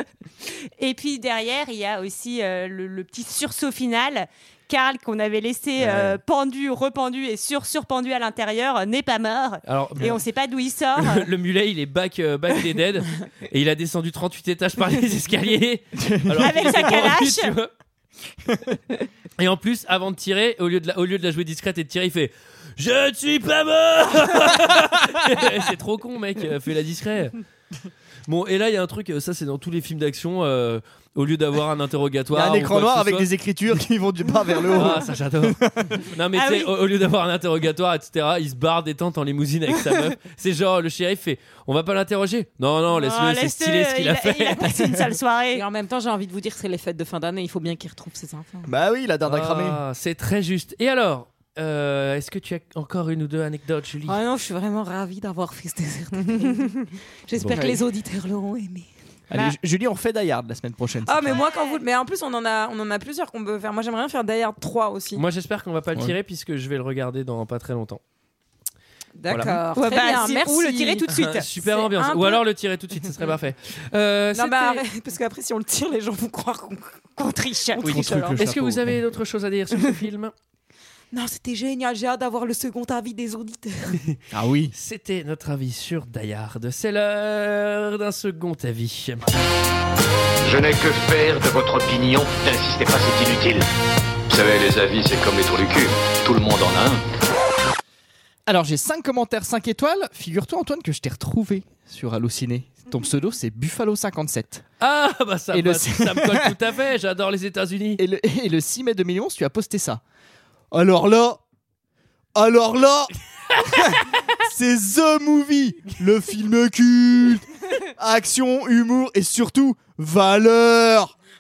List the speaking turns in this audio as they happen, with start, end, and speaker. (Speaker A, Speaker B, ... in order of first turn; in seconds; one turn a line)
Speaker A: 0.8-11.3
Speaker B: 5.8-6.2
Speaker B: 9.7-10.2
Speaker B: 11.0-17.7
Speaker C: 16.0-16.6
Speaker A: 16.4-17.6
Speaker B: 19.4-27.4
Speaker B: 28.3-33.3
Speaker C: 32.3-36.0
Speaker B: 34.7-44.7
Speaker A: 36.3-36.7
Speaker A: 42.9-45.6
Speaker D: 45.5-48.7
Speaker C: 48.7-49.8
Speaker B: 49.3-54.2
Speaker D: 54.1-58.9
Speaker B: 57.4-57.8
Speaker C: 59.3-61.4
Speaker D: 61.1-65.2
Speaker B: 65.2-68.0
Speaker D: 69.2-71.1
Speaker B: 69.3-69.6
Speaker A: 69.7-71.5
Speaker B: 71.1-74.8
Speaker D: 71.6-72.5
Speaker D: 74.3-77.0
Speaker A: 77.2-77.9
Speaker D: 77.8-78.4
Speaker B: 77.8-80.3
Speaker C: 77.9-79.0
Speaker D: 81.1-84.0
Speaker C: 84.3-84.7
Speaker B: 84.7-89.3
Speaker E: 90.4-93.7
Speaker E: 94.3-97.0
Speaker C: 98.5-104.7
Speaker B: 104.8-108.0
Speaker C: 105.5-106.5
Speaker C: 108.0-110.0
Speaker C: 110.7-111.4
Speaker C: 112.3-121.2